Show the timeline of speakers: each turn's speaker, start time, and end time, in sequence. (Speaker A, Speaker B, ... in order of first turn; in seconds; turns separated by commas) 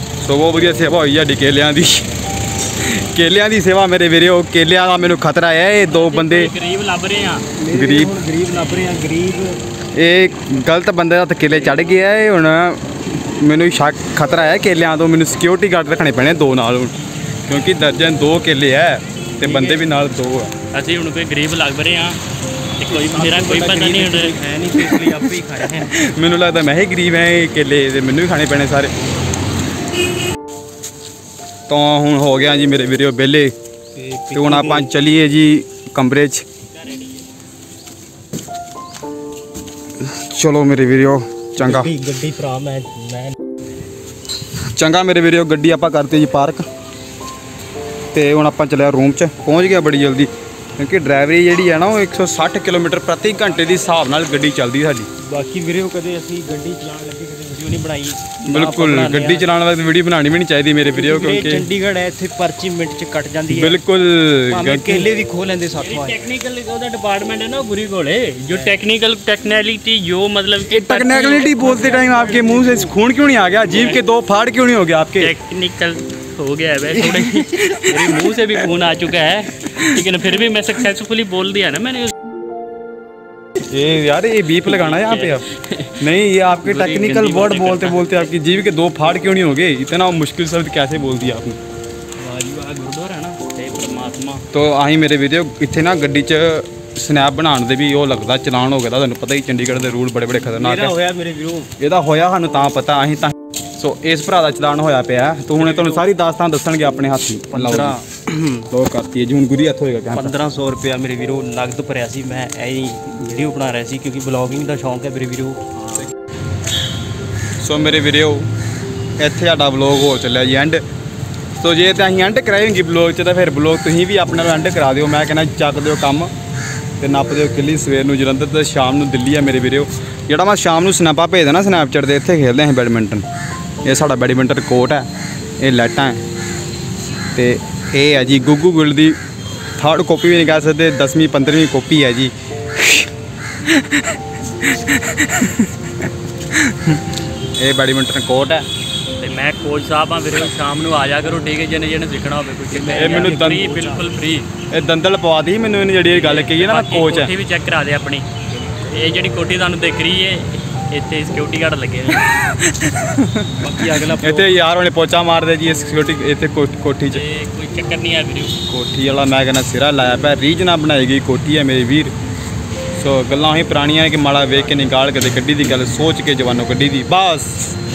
Speaker A: 0.2-2.1, Speaker A: 2.8-6.5, Speaker B: 5.9-7.5, Speaker C: 7.6-9.6, Speaker A: 7.7-8.1, Speaker A: 9.9-12.8, Speaker B: 11.5-12.0, Speaker A: 13.4-16.9, Speaker A: 17.5-20.5, Speaker B: 19.4-19.9, Speaker B: 20.7-22.2, Speaker B: 22.8-24.4, Speaker C: 22.9-25.9, Speaker A: 24.9-25.2, Speaker A: 25.8-28.9, Speaker A: 31.7-33.5, Speaker C: 34.0-34.9, Speaker A: 34.3-36.4, Speaker B: 36.8-37.2, Speaker A: 40.0-41.9, Speaker C: 41.6-43.3, Speaker A: 44.7-46.6, Speaker A: 48.1-55.1, Speaker C: 53.5-54.0, Speaker C: 55.2-59.5, Speaker A: 58.4-61.7, Speaker C: 60.9-63.8, Speaker A: 63.5-65.1, Speaker C: 64.5-66.2, Speaker B: 65.8-72.5, Speaker C: 68.5-68.8, Speaker A: 70.7-75.3, Speaker C: 71.8-72.9, Speaker B: 73.7-74.0, Speaker B: 75.2-82.1, Speaker A: 76.9-78.3, Speaker A: 83.7-85.5, Speaker B: 84.5-86.1, Speaker A: 86.0-91.6, Speaker B: 86.6-88.3, Speaker B: 92.2-94.4, Speaker A: 94.5-100.9, Speaker C: 100.5-101.7, Speaker A: 101.8-108.0, Speaker B: 105.5-106.0, Speaker C: 107.5-108.7, Speaker A: 108.7-110.3, Speaker C: 110.1-115.6, Speaker B: 115.8-116.1, Speaker A: 117.6-118.5, Speaker A: 119.2-120.8, Speaker A: 121.6-126.3, Speaker A: 127.0-133.2, Speaker A: 133.8-135.1, Speaker A: 135.6-136.2, Speaker A: 137.3-139.2, Speaker A: 139.8-143.1, Speaker A: 143.6-145.9, Speaker A: 146.5-147.1, Speaker A: 147.6-148.6, Speaker B: 149.2-154.5, Speaker C: 152.7-154.1, Speaker A: 152.9-153.7, Speaker A: 154.7-157.3, Speaker B: 156.1-162.3, Speaker C: 158.5-158.8, Speaker A: 162.5-167.2, Speaker C: 163.6-164.5, Speaker B: 167.1-168.5, Speaker A: 168.7-172.1, Speaker A: 172.9-177.6, Speaker C: 174.5-174.9